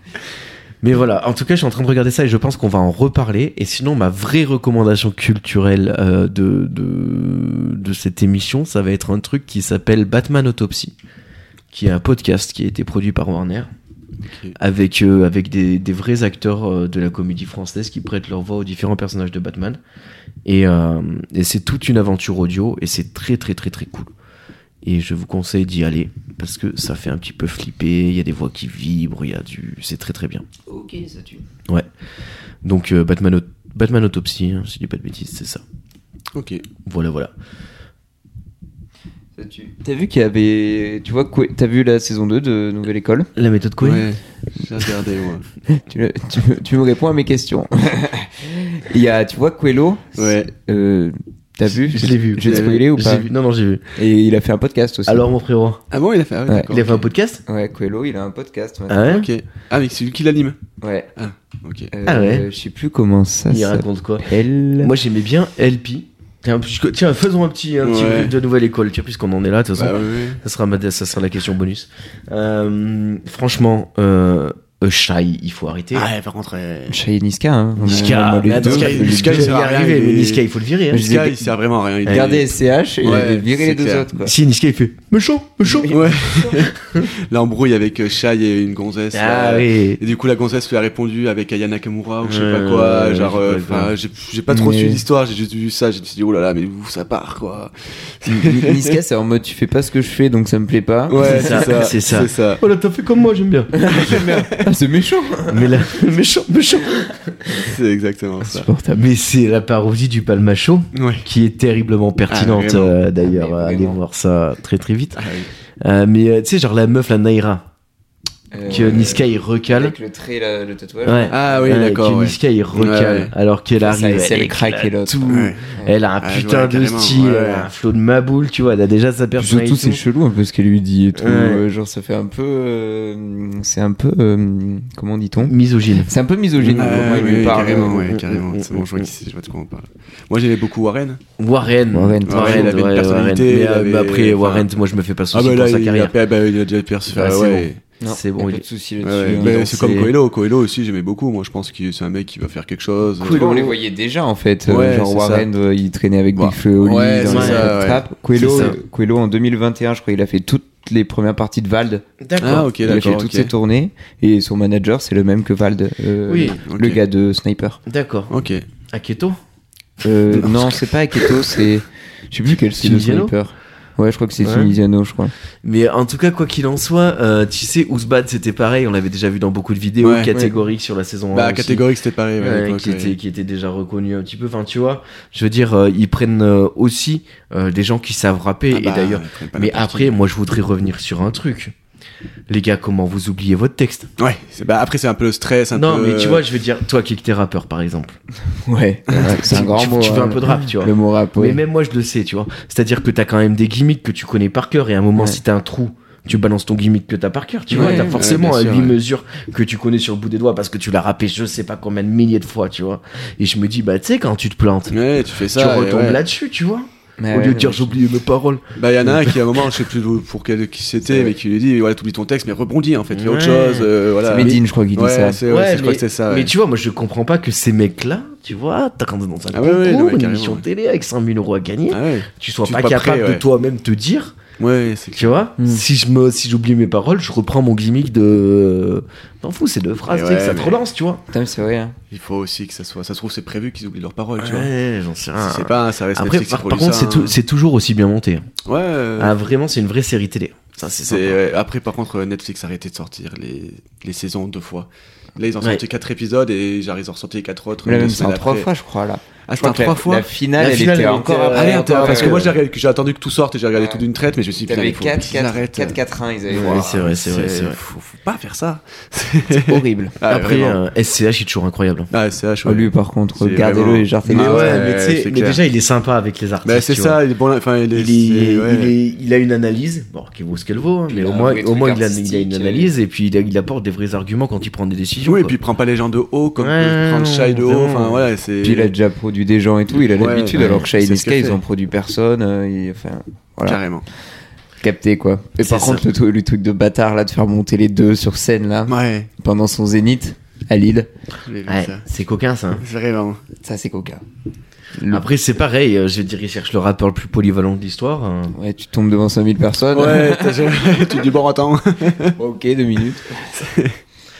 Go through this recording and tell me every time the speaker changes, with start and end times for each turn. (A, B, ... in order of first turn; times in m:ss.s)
0:00.8-0:10.9 A
0:11.7-0:13.7 A
0:14.3-0:14.6 B
0:14.6-0:19.8 A
0:20.4-0:24.1 A
0:24.8-0:30.5 A
0:30.7-0:31.4 C
0:32.6-0:35.6 A
0:36.3-0:36.6 B
0:36.8-0:37.3 A
0:39.4-0:43.3 C
0:43.4-0:44.1 A
0:43.8-0:45.5 B
0:45.7-0:53.3 C
0:50.2-0:50.5 B
0:51.7-0:53.8 A
0:52.4-0:52.8 B
0:53.9-0:55.3 C
0:55.1-0:55.8 A
0:55.9-0:57.1 B
0:56.7-0:57.4 A
0:57.5-0:59.1 C
0:58.9-0:59.3 A
0:59.0-1:00.6 B
1:00.8-1:01.1 C
1:01.2-1:01.9 B
1:01.9-1:04.9 C
1:02.0-1:02.5 A
1:03.5-1:16.1 A
1:07.8-1:08.3 B
1:09.8-1:10.4 B
1:15.9-1:17.0 B
1:16.9-1:19.5 C
1:17.8-1:21.2 A
1:17.8-1:22.5 B
1:20.9-1:21.4 C
1:22.0-1:24.3 C
1:23.0-1:24.1 B
1:24.2-1:27.1 A
1:25.6-1:26.0 C
1:25.9-1:39.0 B
1:29.1-1:30.0 A
1:32.2-1:33.9 A
1:34.5-1:35.0 C
1:38.3-1:41.8 C
1:41.1-1:42.6 B
1:41.2-1:43.9 A
1:43.7-1:45.7 C
1:43.9-1:44.4 B
1:45.5-1:47.7 A
1:47.5-1:48.7 B
1:48.4-1:49.0 C
1:48.9-1:57.7 A
1:50.9-1:51.2 B
1:52.3-1:52.9 B
1:53.2-1:54.0 C
1:55.2-1:55.5 B
1:58.5-2:01.8 C
1:58.6-1:59.9 A
2:01.0-2:10.0 A
2:01.3-2:03.3 B
2:03.8-2:05.9 C
2:05.3-2:05.7 B
2:06.2-2:07.7 B
2:09.4-2:18.0 C
2:11.2-2:11.6 A
2:15.4-2:19.1 A
2:16.8-2:21.2 B
2:21.4-2:26.1 A
2:21.9-2:22.7 C
2:22.3-2:24.7 B
2:25.3-2:27.8 B
2:27.1-2:28.6 A
2:28.0-2:29.7 C
2:29.0-2:33.6 B
2:29.4-2:30.1 A
2:33.2-2:33.8 A
2:33.3-2:42.0 C
2:34.7-2:35.5 B
2:36.4-2:38.0 B
2:37.2-2:37.8 A
2:38.4-2:38.8 A
2:42.2-2:43.2 A
2:42.4-2:43.5 B
2:42.8-2:47.8 C
2:46.3-2:46.6 A
2:46.6-2:47.0 B
2:47.9-2:48.3 A
2:48.3-2:48.6 B
2:48.9-2:49.4 A
2:50.0-2:55.3 C
2:50.3-2:51.3 B
2:52.7-2:53.3 A
2:54.4-2:54.8 A
2:55.6-3:01.8 A
3:00.0-3:00.4 B
3:01.3-3:03.1 B
3:02.4-3:11.7 A
3:08.7-3:10.2 B
3:12.5-3:14.1 A
3:14.2-3:16.4 B
3:15.7-3:18.2 A
3:18.6-3:21.6 C
3:19.1-3:19.4 B
3:19.2-3:39.4 A
3:27.7-3:28.5 C
3:27.7-3:29.0 B
3:34.9-3:36.2 B
3:37.2-3:38.0 C
3:38.8-3:46.5 B
3:43.1-3:43.9 A
3:44.3-3:45.4 C
3:45.4-3:54.4 A
3:49.5-3:50.6 B
3:51.9-3:53.4 B
3:54.6-3:55.4 B
3:55.1-4:01.2 A
4:00.1-4:00.8 B
4:01.3-4:02.0 C
4:02.1-4:04.7 B
4:04.4-4:08.5 A
4:05.4-4:07.4 B
4:08.6-4:09.4 B
4:09.2-4:11.4 A
4:11.0-4:18.7 B
4:17.8-4:22.5 C
4:19.5-4:20.3 B
4:20.6-4:22.6 A
4:21.5-4:26.0 B
4:24.6-4:27.1 C
4:26.5-4:30.8 B
4:26.5-4:27.8 A
4:29.5-4:30.1 C
4:30.3-4:32.1 A
4:32.1-4:35.6 B
4:32.6-4:34.9 C
4:34.2-4:37.2 A
4:36.6-4:38.9 B
4:37.9-4:45.6 A
4:41.1-4:42.9 C
4:45.2-4:48.9 B
4:46.6-4:48.3 A
4:48.6-4:53.8 C
4:50.0-4:51.6 B
4:50.6-4:50.9 A
4:53.6-4:54.0 B
4:54.8-5:01.1 C
4:55.6-4:56.0 A
4:58.9-4:59.3 B
5:01.4-5:02.0 B
5:01.7-5:02.8 A
5:02.8-5:03.4 B
5:03.6-5:04.2 C
5:04.9-5:05.2 C
5:05.1-5:08.6 A
5:08.5-5:10.8 C
5:09.9-5:12.4 B
5:12.4-5:13.5 C
5:13.5-5:14.0 B